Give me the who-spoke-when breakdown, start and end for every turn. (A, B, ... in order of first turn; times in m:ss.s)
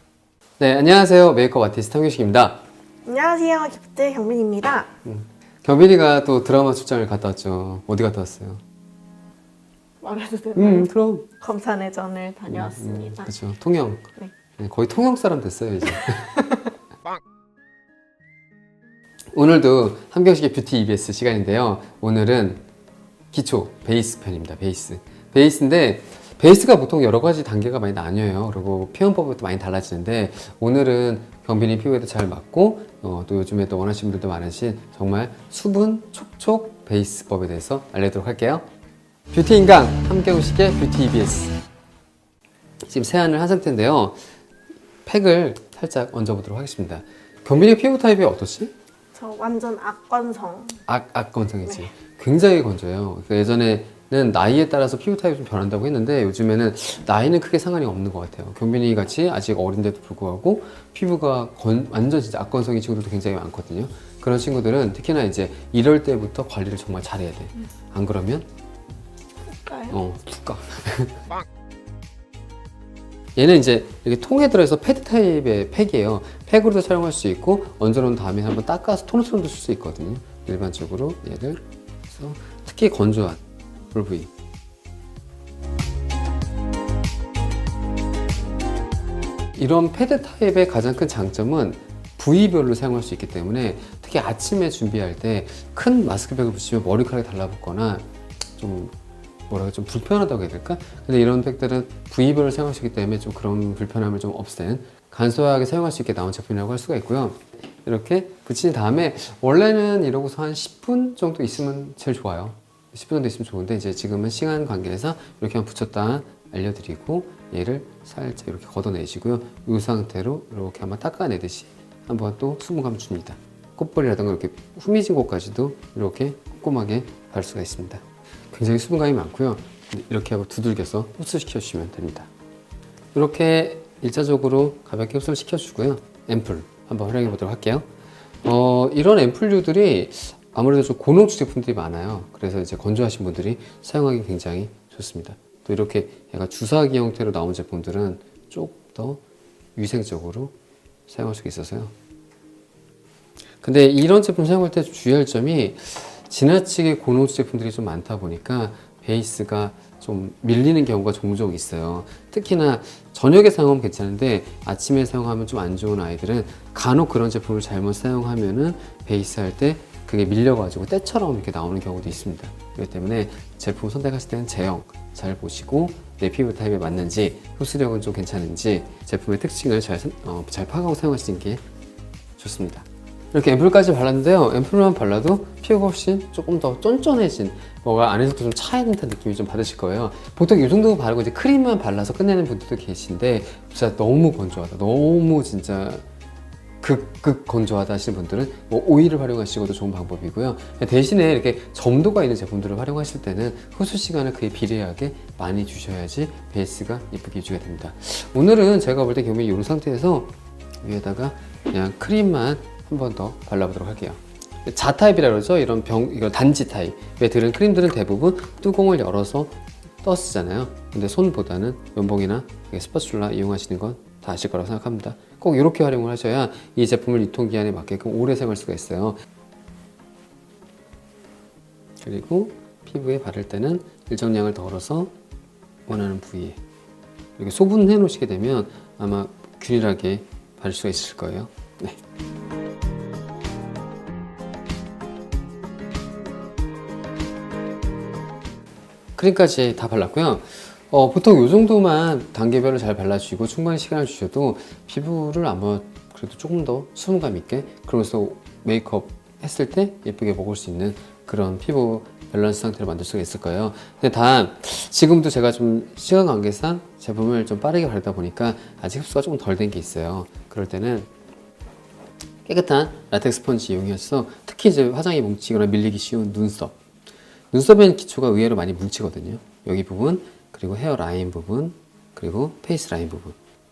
0:00.6-0:02.6 A
0:03.0-0:04.9 B
0:05.0-0:08.6 A
0:10.0-0:10.9 B
0:10.6-0:11.3 A
0:11.4-0:13.3 B
0:12.5-0:16.6 A
0:19.3-0:22.6 A
0:23.3-0:38.6 A
0:39.3-0:41.6 A
0:42.9-0:44.2 A
0:45.0-0:48.7 A
0:49.1-0:50.8 B
0:50.8-1:08.5 A
1:09.6-1:09.9 B
1:09.9-1:11.2 A
1:13.4-1:23.4 A
1:23.9-1:24.3 A
1:29.5-1:38.0 A
1:38.6-1:38.9 A
1:39.5-2:12.3 A
2:13.1-2:17.9 A
2:18.4-2:29.2 A
2:29.8-2:30.5 A
2:31.1-2:31.9 A
2:33.6-3:01.6 A
3:02.4-3:16.0 A
3:16.8-3:30.3 A
3:30.8-3:49.2 A
3:52.0-3:55.1 A
3:55.9-3:56.6 A
3:57.4-4:02.0 A
4:09.2-4:31.1 A
4:32.4-4:36.8 A
4:37.5-4:43.4 A